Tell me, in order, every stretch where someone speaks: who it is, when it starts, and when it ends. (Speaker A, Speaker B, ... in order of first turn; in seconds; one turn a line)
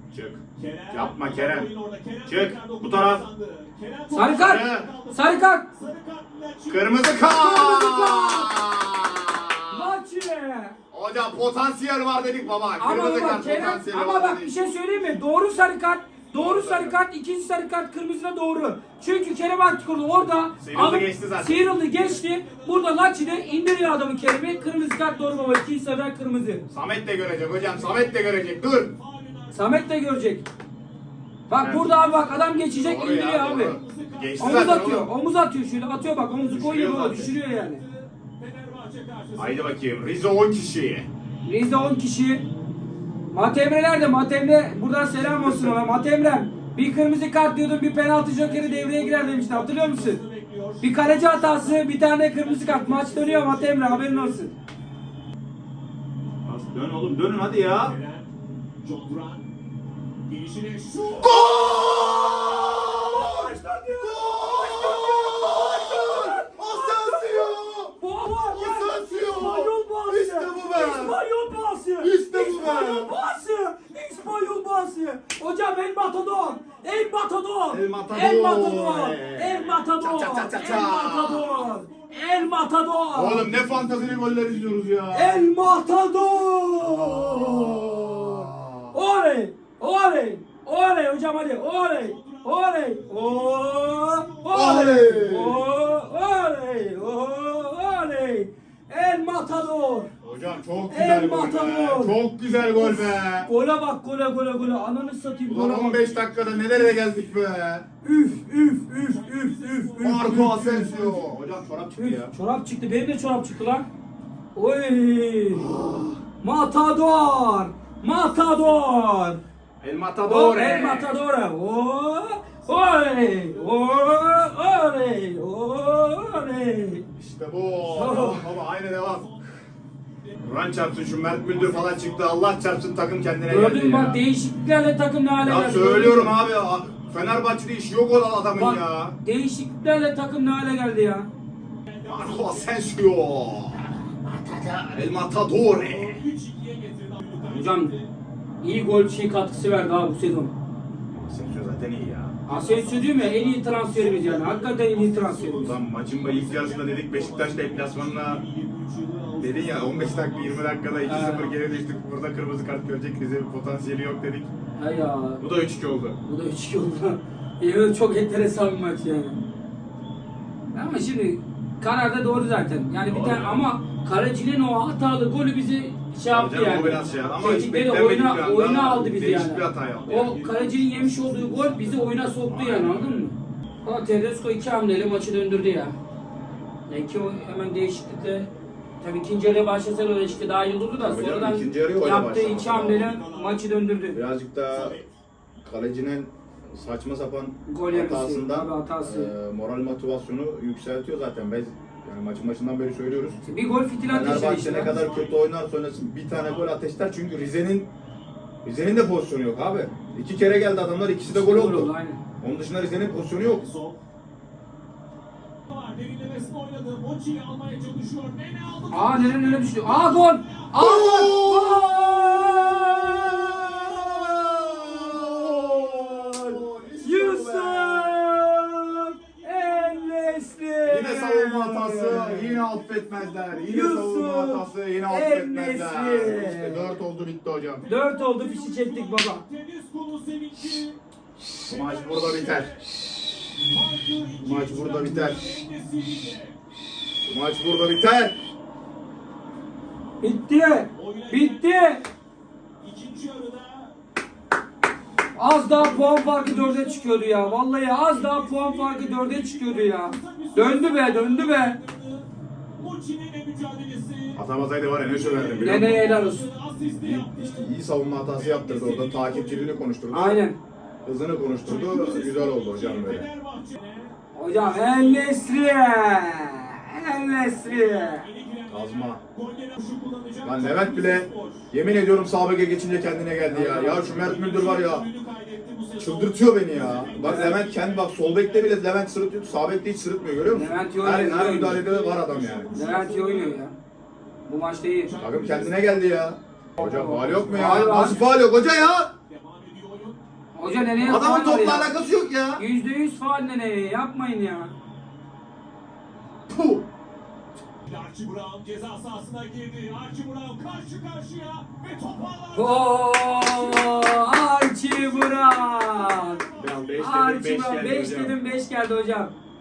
Speaker A: 0.1-1.7
Speaker B: 0.6-7.5
Speaker A: 2.3-3.2
Speaker C: 4.1-5.7
Speaker A: 4.3-4.9
Speaker A: 6.7-9.9
Speaker C: 7.2-8.5
Speaker C: 9.7-10.8
Speaker A: 10.9-14.5
Speaker C: 12.8-26.6
Speaker B: 14.4-16.5
Speaker A: 16.3-17.0
Speaker A: 20.6-21.7
Speaker B: 21.7-25.8
Speaker A: 26.7-28.9
Speaker B: 27.5-28.2
Speaker B: 28.9-30.1
Speaker C: 29.5-30.4
Speaker C: 31.5-33.8
Speaker A: 31.6-31.9
Speaker B: 31.7-35.0
Speaker A: 32.8-35.1
Speaker C: 34.4-37.8
Speaker A: 36.4-37.3
Speaker B: 37.3-39.7
Speaker A: 39.4-41.1
Speaker C: 41.5-42.5
Speaker C: 43.3-50.2
Speaker A: 45.3-45.8
Speaker B: 48.3-54.4
Speaker C: 50.8-54.5
Speaker A: 56.4-58.0
Speaker B: 57.7-58.3
Speaker B: 58.8-59.5
Speaker B: 60.3-61.5
Speaker A: 61.2-71.2
Speaker C: 63.0-83.5
Speaker A: 72.0-73.1
Speaker B: 76.5-77.1
Speaker A: 77.7-81.6
Speaker B: 80.5-84.9
Speaker A: 83.1-85.5
Speaker C: 85.1-100.1
Speaker A: 86.8-89.0
Speaker B: 91.6-95.1
Speaker A: 94.5-95.6
Speaker A: 100.2-103.5
Speaker C: 100.9-102.2
Speaker C: 102.7-106.0
Speaker B: 104.6-107.0
Speaker A: 105.5-107.9
Speaker C: 108.0-110.8
Speaker B: 108.9-111.7
Speaker A: 110.0-112.3
Speaker C: 112.0-113.9
Speaker C: 114.5-115.7
Speaker A: 115.5-116.2
Speaker C: 116.4-119.4
Speaker A: 119.8-121.1
Speaker C: 120.2-127.1
Speaker B: 122.5-124.7
Speaker A: 127.2-129.3
Speaker C: 128.0-128.4
Speaker B: 128.1-129.5
Speaker B: 130.1-132.5
Speaker A: 130.4-134.2
Speaker C: 133.5-136.3
Speaker A: 135.4-139.2
Speaker C: 138.6-141.3
Speaker B: 141.9-143.0
Speaker A: 142.1-144.0
Speaker A: 144.6-146.2
Speaker B: 145.8-148.1
Speaker C: 147.5-147.9
Speaker C: 148.6-150.5
Speaker A: 151.1-152.4
Speaker C: 152.5-155.8
Speaker B: 152.5-162.0
Speaker A: 155.6-158.4
Speaker A: 159.4-164.5
Speaker C: 161.1-161.5
Speaker C: 164.8-165.4
Speaker A: 165.4-166.2
Speaker C: 166.2-169.4
Speaker C: 170.7-183.3
Speaker A: 173.1-173.7
Speaker A: 176.3-180.4
Speaker B: 180.0-182.4
Speaker A: 182.5-183.3
Speaker C: 183.8-185.9
Speaker C: 186.9-188.5
Speaker C: 189.0-194.2
Speaker A: 191.0-193.2
Speaker B: 192.8-193.9
Speaker A: 194.1-195.0
Speaker B: 194.7-195.1
Speaker A: 195.6-203.4
Speaker C: 197.7-199.3
Speaker C: 203.4-204.9
Speaker A: 204.1-207.9
Speaker B: 204.7-205.4
Speaker A: 208.6-211.9
Speaker C: 211.3-212.2
Speaker A: 212.4-213.7
Speaker B: 213.3-214.0
Speaker B: 215.7-221.0
Speaker C: 218.9-225.6
Speaker A: 220.7-228.2
Speaker C: 227.0-232.6
Speaker B: 228.2-230.8
Speaker A: 230.8-237.9
Speaker B: 232.3-233.7
Speaker C: 233.6-237.0
Speaker B: 237.8-241.0
Speaker C: 237.9-239.4
Speaker A: 241.6-242.7
Speaker B: 241.6-243.0
Speaker B: 243.5-246.6
Speaker A: 244.4-245.7
Speaker A: 247.3-248.4
Speaker C: 250.2-252.0
Speaker B: 251.0-252.0
Speaker B: 252.8-253.9
Speaker C: 255.4-261.8
Speaker B: 255.7-262.3
Speaker B: 262.8-264.4
Speaker A: 264.4-266.1
Speaker B: 265.1-267.7
Speaker C: 265.6-266.5
Speaker A: 267.0-270.4
Speaker B: 268.3-269.8
Speaker C: 270.1-270.6
Speaker A: 271.1-273.3
Speaker B: 271.6-275.6
Speaker C: 274.3-278.3
Speaker B: 277.4-281.7
Speaker A: 278.7-279.2
Speaker A: 280.4-285.1
Speaker C: 283.5-284.2
Speaker B: 284.0-288.8
Speaker A: 286.0-292.7
Speaker C: 287.2-287.6
Speaker C: 290.5-291.9
Speaker B: 291.6-293.6
Speaker C: 292.7-293.8
Speaker C: 294.5-295.1
Speaker B: 295.0-296.3
Speaker A: 295.2-299.1
Speaker C: 296.8-298.2
Speaker B: 299.3-300.2
Speaker C: 300.6-301.9
Speaker A: 301.0-302.6
Speaker C: 302.6-304.7
Speaker A: 306.5-306.9
Speaker B: 307.9-317.1
Speaker C: 312.5-316.4
Speaker A: 316.6-318.4
Speaker C: 317.0-319.3